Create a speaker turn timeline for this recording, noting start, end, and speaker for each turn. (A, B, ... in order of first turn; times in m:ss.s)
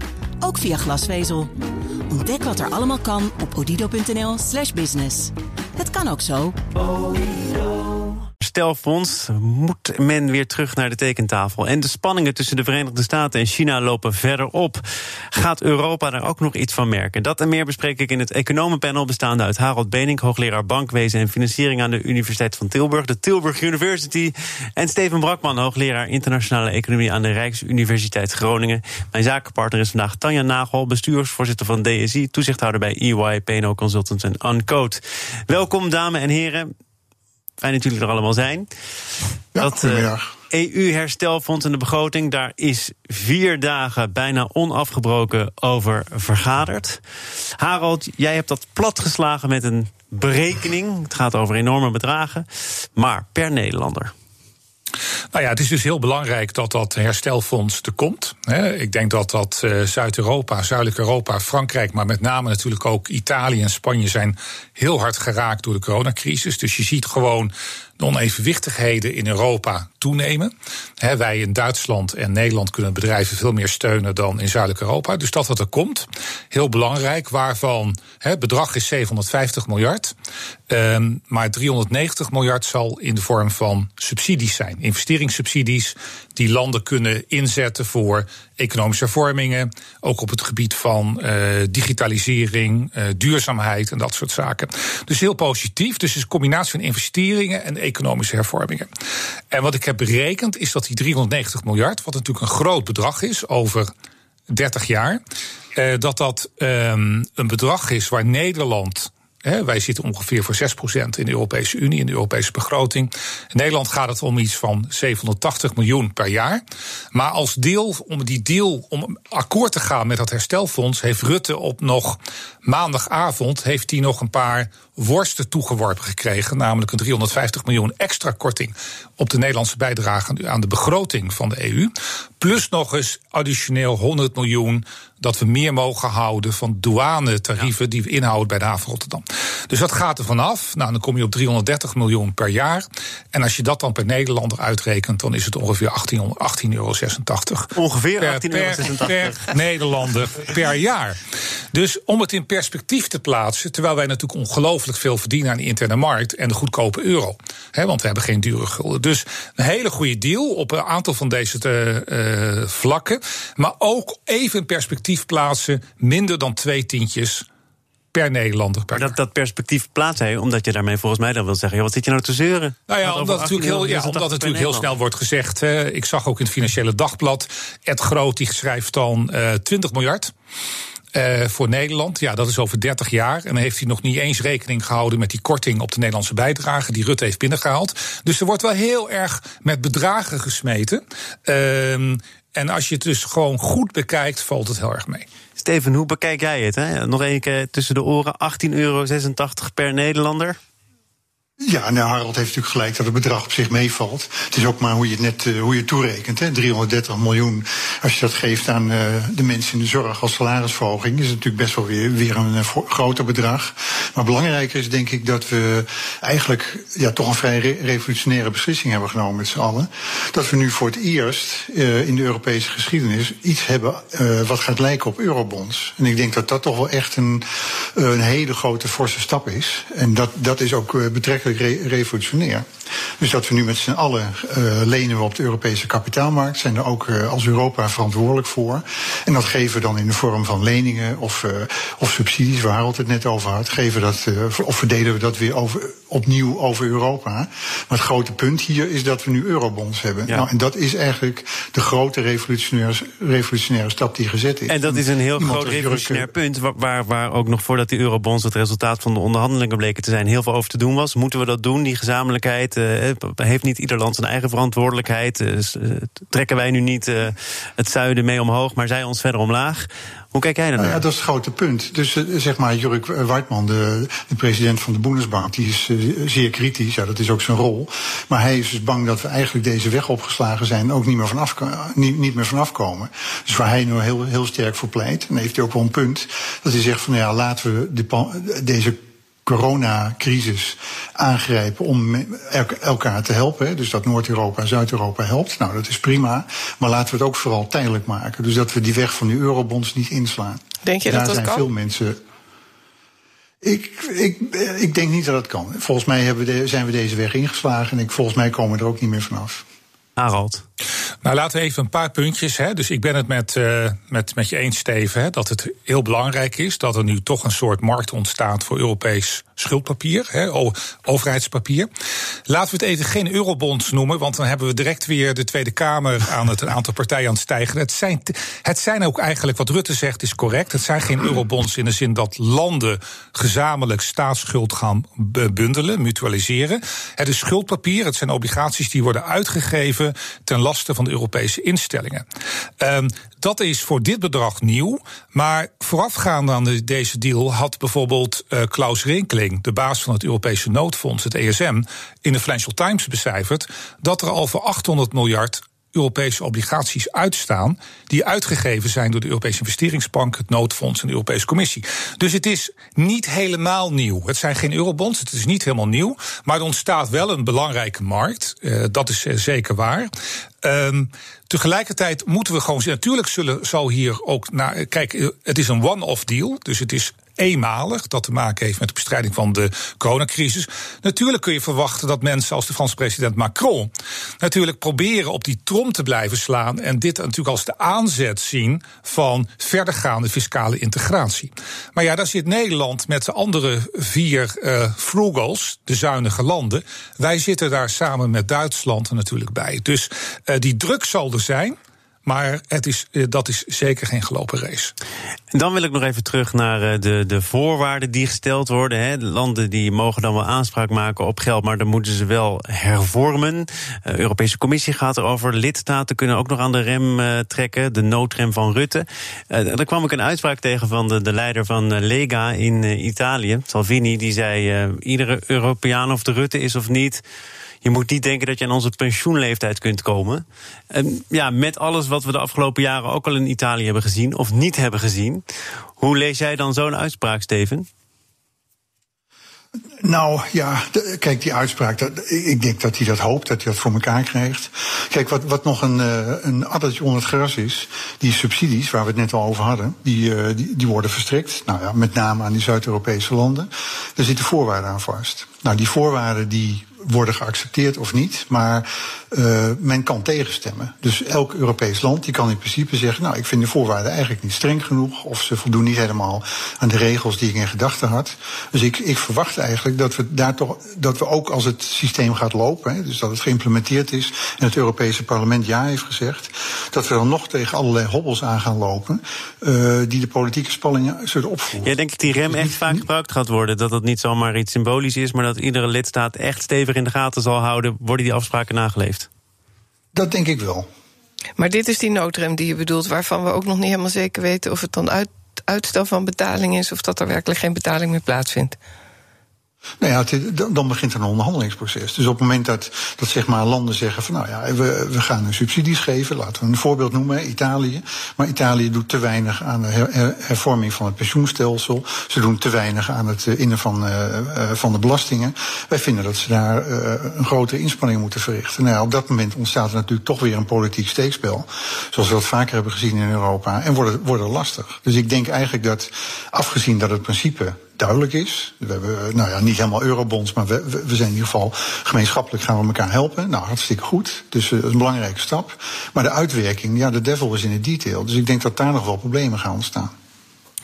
0:00.4-0:01.5 A
0:02.1-0:06.6 A
0:08.4-0:36.7 B
0:37.6-0:38.7 B
0:39.6-0:40.3 C
0:39.6-0:47.0 B
0:47.6-0:54.1 B
0:55.3-1:20.1 D
1:20.7-1:38.9 D
1:39.5-1:43.9 D
1:44.5-1:45.2 D
1:45.7-1:56.6 D
1:57.1-2:47.4 D
2:27.8-2:29.5 B
2:48.1-2:49.1 D
2:48.9-2:54.9 B
2:52.9-3:00.3 D
3:01.1-3:15.2 D
3:15.6-3:20.6 B
3:21.6-3:52.7 C
3:53.2-4:16.3 C
4:14.7-4:31.0 B
4:30.8-5:02.2 C
5:00.8-5:01.6 E
5:03.6-5:09.6 C
5:10.2-5:10.6 B
5:11.2-5:21.9 D
5:22.5-5:42.2 D
5:42.8-6:10.1 D
6:10.6-6:44.9 D
6:45.5-7:07.2 B
7:07.8-7:15.4 B
7:16.0-7:17.9 B
7:20.0-8:03.0 C
8:01.8-8:09.3 B
8:10.1-8:10.9 C
8:11.6-8:18.8 E
8:20.0-9:00.1 C